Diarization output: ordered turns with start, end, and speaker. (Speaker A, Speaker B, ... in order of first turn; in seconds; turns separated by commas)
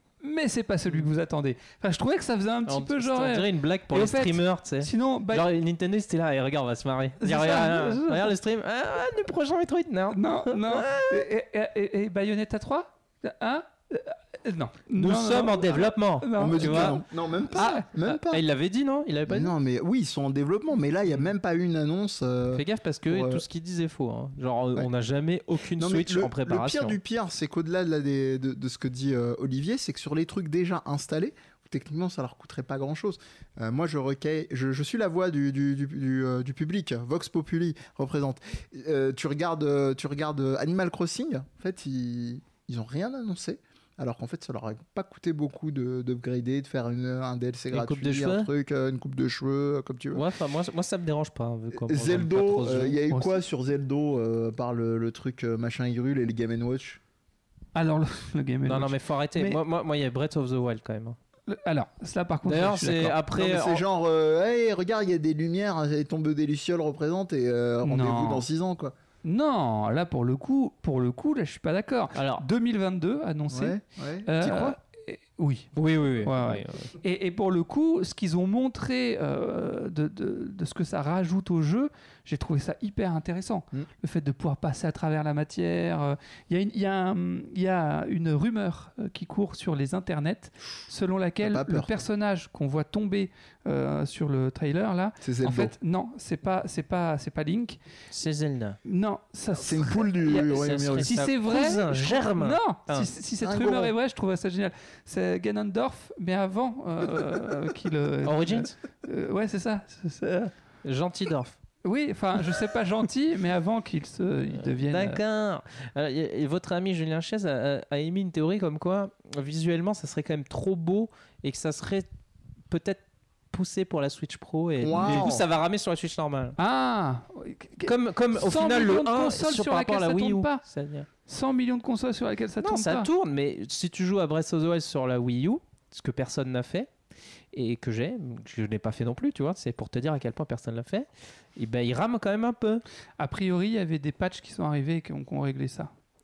Speaker A: 0.2-5.5, Speaker B: 2.7-11.3, Speaker A: 7.2-8.4, Speaker A: 10.1-18.1, Speaker B: 14.9-17.0, Speaker C: 16.4-18.4, Speaker B: 18.1-19.5, Speaker C: 19.3-23.4, Speaker B: 22.5-27.0, Speaker C: 25.8-50.3, Speaker B: 47.7-48.5, Speaker B: 50.1-53.0, Speaker C: 51.7-57.0, Speaker A: 53.1-53.4, Speaker A: 57.8-59.6, Speaker B: 58.7-61.2, Speaker A: 61.5-63.2, Speaker B: 62.5-63.8, Speaker C: 63.3-69.0, Speaker A: 67.8-68.5, Speaker A: 69.2-75.7, Speaker B: 72.1-72.5, Speaker C: 73.5-74.8, Speaker B: 75.8-76.9, Speaker A: 76.2-97.8, Speaker C: 91.4-92.0, Speaker C: 95.2-95.8, Speaker B: 98.1-98.8, Speaker A: 98.8-110.5, Speaker C: 99.5-101.3, Speaker B: 100.4-103.1, Speaker C: 103.4-103.9, Speaker B: 108.2-108.8, Speaker B: 110.8-111.6, Speaker A: 111.8-115.2, Speaker B: 114.6-122.1, Speaker B: 122.7-126.6, Speaker C: 124.8-125.4, Speaker A: 124.9-125.3, Speaker A: 126.6-130.6, Speaker B: 127.8-131.1, Speaker A: 131.3-133.1, Speaker B: 132.6-136.9, Speaker B: 137.5-142.8, Speaker A: 143.2-145.9